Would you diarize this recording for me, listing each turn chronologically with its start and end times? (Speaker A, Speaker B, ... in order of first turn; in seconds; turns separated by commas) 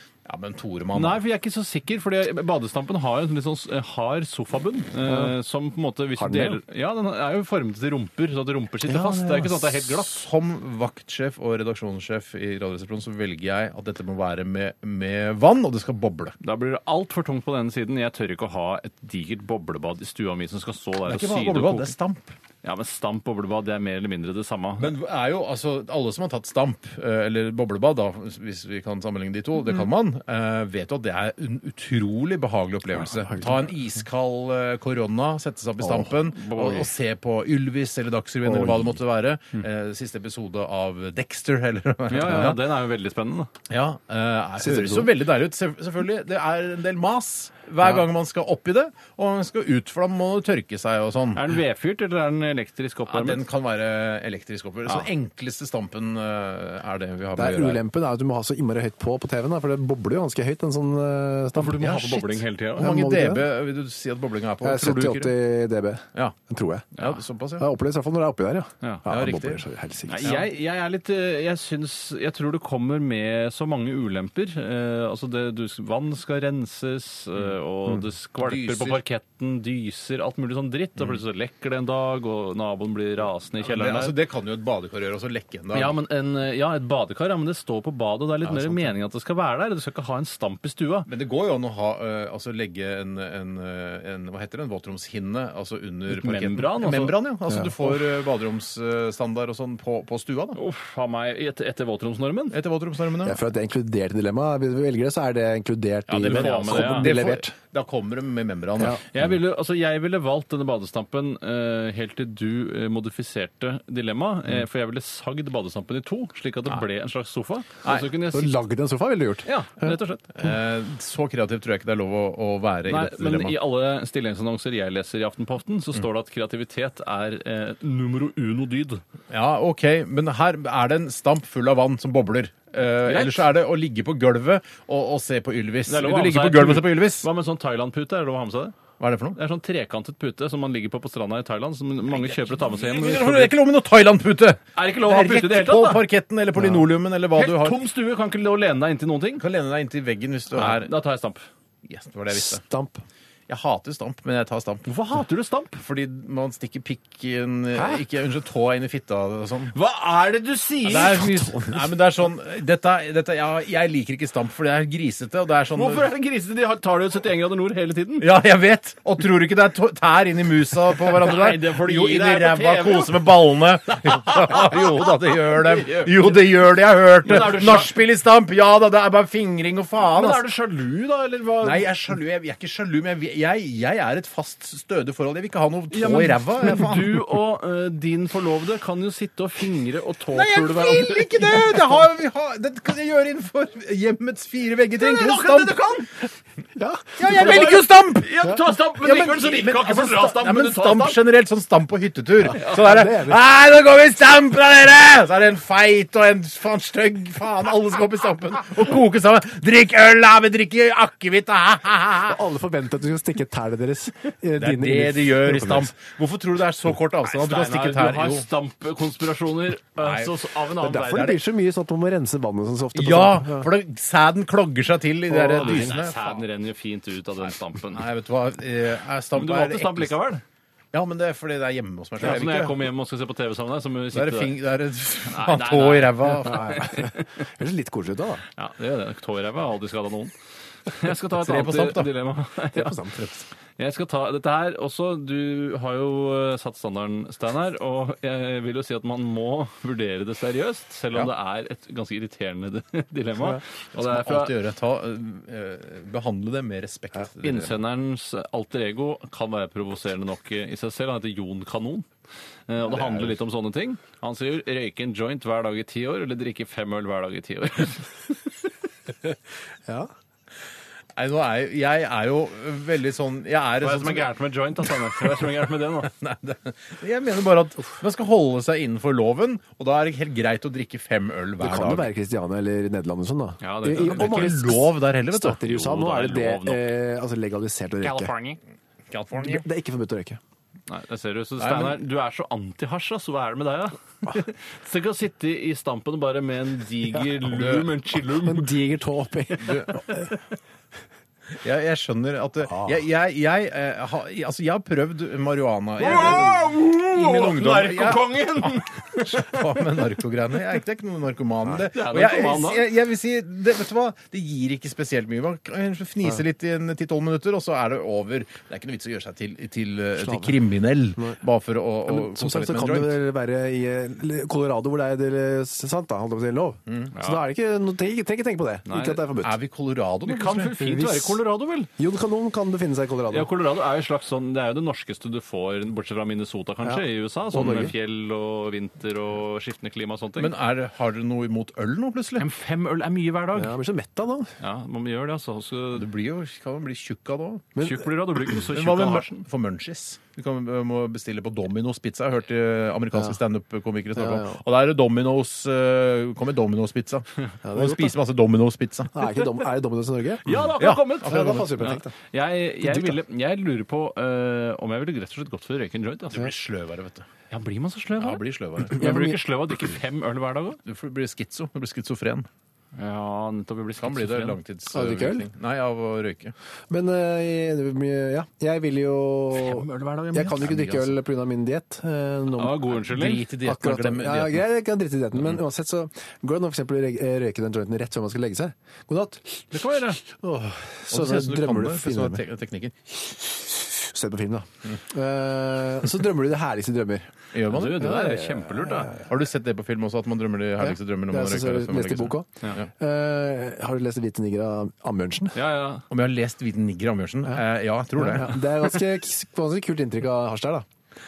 Speaker A: 0.3-1.2, Speaker B: 0.9-10.2, Speaker C: 5.0-5.3, Speaker C: 6.2-6.6, Speaker C: 8.9-9.6, Speaker A: 9.9-16.4, Speaker B: 16.4-21.9, Speaker A: 21.1-22.4, Speaker B: 22.6-24.9, Speaker A: 24.8-42.6, Speaker C: 33.0-33.5, Speaker B: 36.3-36.9, Speaker C: 38.5-39.0, Speaker B: 42.1-43.5, Speaker A: 43.7-51.5, Speaker C: 44.6-45.1, Speaker B: 51.4-53.4, Speaker A: 53.1-57.8, Speaker C: 57.3-63.5, Speaker B: 61.5-62.9, Speaker A: 62.8-65.4, Speaker C: 64.6-66.9, Speaker A: 67.0-67.7, Speaker C: 67.6-70.2, Speaker A: 69.1-69.6, Speaker B: 70.1-84.1, Speaker A: 78.4-79.0, Speaker A: 83.6-86.0, Speaker B: 85.7-91.1, Speaker A: 88.4-88.9, Speaker A: 91.1-100.6, Speaker B: 96.1-97.2, Speaker C: 97.5-97.9, Speaker B: 100.5-102.6, Speaker A: 102.5-103.4, Speaker C: 103.2-107.5, Speaker A: 106.1-109.1, Speaker B: 106.2-107.1, Speaker B: 109.1-118.5, Speaker C: 118.3-120.0, Speaker B: 119.5-120.2, Speaker A: 120.3-123.6, Speaker B: 122.9-129.0, Speaker A: 129.3-137.3, Speaker B: 133.1-133.4, Speaker B: 135.9-138.8, Speaker A: 139.0-139.4, Speaker B: 139.4-143.5, Speaker A: 142.1-147.8, Speaker B: 144.8-146.0, Speaker B: 147.3-149.4, Speaker A: 149.4-150.9, Speaker B: 150.5-151.5, Speaker A: 151.9-152.6, Speaker C: 152.3-153.0, Speaker A: 153.5-154.9, Speaker B: 154.9-155.8, Speaker A: 155.8-159.7, Speaker B: 159.7-161.3, Speaker A: 160.8-166.1, Speaker C: 161.2-161.8, Speaker B: 165.7-168.3, Speaker A: 168.2-180.4, Speaker B: 171.2-173.3, Speaker B: 173.9-176.4, Speaker B: 177.2-177.9, Speaker B: 180.0-181.9, Speaker A: 181.6-187.3, Speaker B: 185.9-191.8, Speaker A: 190.3-195.9, Speaker B: 195.0-196.1, Speaker C: 196.8-197.8, Speaker A: 197.2-212.4, Speaker B: 197.2-201.2, Speaker C: 202.5-203.4, Speaker C: 212.2-215.9, Speaker A: 214.6-218.5, Speaker B: 217.2-221.4, Speaker A: 220.0-220.4, Speaker C: 220.8-223.7, Speaker A: 222.9-226.4, Speaker C: 225.3-225.9, Speaker B: 225.3-228.1, Speaker A: 227.8-230.2, Speaker B: 229.4-230.4, Speaker A: 230.9-232.9, Speaker B: 232.2-234.5, Speaker A: 234.1-236.9, Speaker B: 235.3-237.2, Speaker C: 236.4-238.4, Speaker B: 238.6-240.3, Speaker B: 240.9-242.9, Speaker A: 241.3-242.1, Speaker C: 242.7-243.3, Speaker A: 243.2-243.4, Speaker B: 243.8-254.5, Speaker A: 253.5-257.8, Speaker B: 257.4-262.1, Speaker B: 262.7-268.3, Speaker A: 262.9-263.3, Speaker A: 271.2-274.4, Speaker B: 273.8-276.1, Speaker A: 274.9-275.5, Speaker A: 276.0-282.1, Speaker C: 281.6-288.3, Speaker B: 283.6-284.5, Speaker A: 284.0-285.6, Speaker B: 285.6-286.9, Speaker B: 288.0-288.6, Speaker A: 289.1-289.6, Speaker C: 289.4-290.4, Speaker B: 290.9-298.7, Speaker A: 291.6-292.0, Speaker A: 297.5-297.9, Speaker C: 298.4-300.3, Speaker A: 301.6-323.2, Speaker C: 302.7-302.9, Speaker B: 306.0-309.6, Speaker B: 311.9-312.9, Speaker C: 320.2-320.6, Speaker C: 322.1-329.6, Speaker A: 326.9-327.1, Speaker B: 327.1-327.4, Speaker B: 328.9-329.2, Speaker A: 329.4-330.7, Speaker B: 330.3-331.9, Speaker C: 330.8-331.4, Speaker C: 332.0-333.5, Speaker B: 333.3-340.5, Speaker C: 336.8-337.9, Speaker A: 340.4-342.4, Speaker B: 342.4-343.7, Speaker C: 343.5-344.5, Speaker B: 344.6-346.1, Speaker A: 345.9-347.8, Speaker C: 347.8-348.1, Speaker B: 347.8-349.4, Speaker A: 348.7-359.1, Speaker C: 354.1-354.6, Speaker C: 357.6-358.2, Speaker C: 359.1-360.5, Speaker B: 360.4-366.5, Speaker A: 360.8-361.8, Speaker C: 361.2-362.1, Speaker C: 362.8-363.2, Speaker A: 366.3-367.3, Speaker B: 367.5-370.8, Speaker A: 368.2-369.0, Speaker C: 368.9-369.4, Speaker A: 370.9-372.5, Speaker B: 372.9-374.6, Speaker A: 374.0-376.5, Speaker C: 374.9-375.5, Speaker C: 376.9-383.0, Speaker B: 379.6-380.7, Speaker A: 380.6-381.1, Speaker B: 382.6-383.5, Speaker A: 383.0-384.6, Speaker C: 383.6-389.5, Speaker B: 389.7-390.2, Speaker C: 390.3-392.4, Speaker A: 391.1-392.9, Speaker C: 393.5-397.3, Speaker A: 397.5-398.1, Speaker B: 397.7-399.1, Speaker C: 397.9-399.2, Speaker A: 399.2-402.9, Speaker C: 400.8-405.6, Speaker B: 405.6-406.0, Speaker A: 406.1-408.6, Speaker C: 408.2-410.9